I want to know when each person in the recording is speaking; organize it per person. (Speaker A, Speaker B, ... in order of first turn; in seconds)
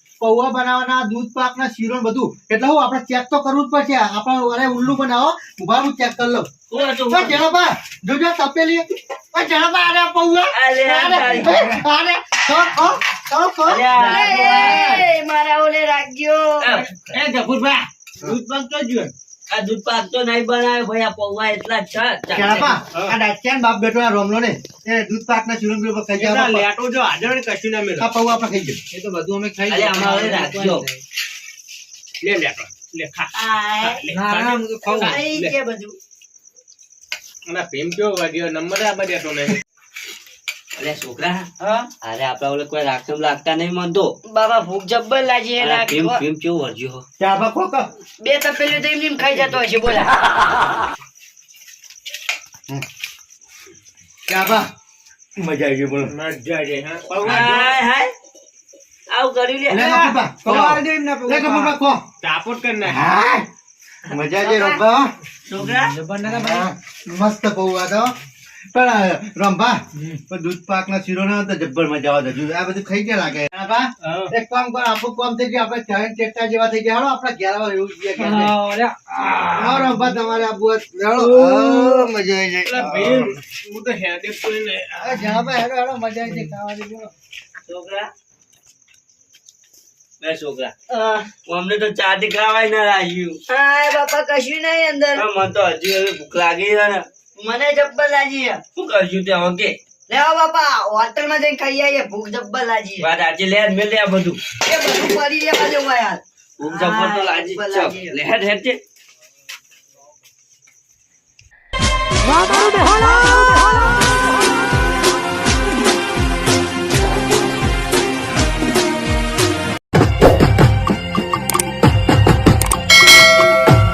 Speaker A: 0.2-14.8, 22.3-26.6, 28.0-28.8, 47.2-47.9, 54.3-54.7, 55.4-56.1, 59.7-62.0, 62.8-63.5, 64.1-65.1, 66.2-68.1, 68.7-78.5, 79.5-83.3, 85.0-87.1
Speaker B: 6.7-7.4, 10.5-11.8, 13.7-15.1, 16.6-17.2, 19.5-22.8, 29.7-30.9, 40.8-41.5, 42.0-44.1, 45.6-47.0, 57.2-58.1, 59.1-59.9, 65.5-65.9, 87.6-88.1, 90.2-90.7, 91.5-93.4, 95.1-97.0, 98.8-99.7, 103.0-104.4, 106.6-108.8
Speaker C: 14.0-16.7, 33.3-34.0, 34.9-36.0, 41.6-41.9, 44.2-46.2, 48.2-50.1, 64.5-64.8, 90.9-91.3, 93.5-95.2, 97.4-98.6, 100.1-103.1, 104.6-108.2
Speaker D: 14.4-14.7, 16.8-19.1, 26.2-28.1, 32.2-35.5, 37.5-39.6, 56.1-57.8, 62.2-63.0, 74.0-74.3, 82.6-85.2
Speaker E: 28.9-31.0, 34.1-35.2, 60.3-61.8, 65.6-66.7, 78.2-80.5, 81.2-81.8, 86.2-86.5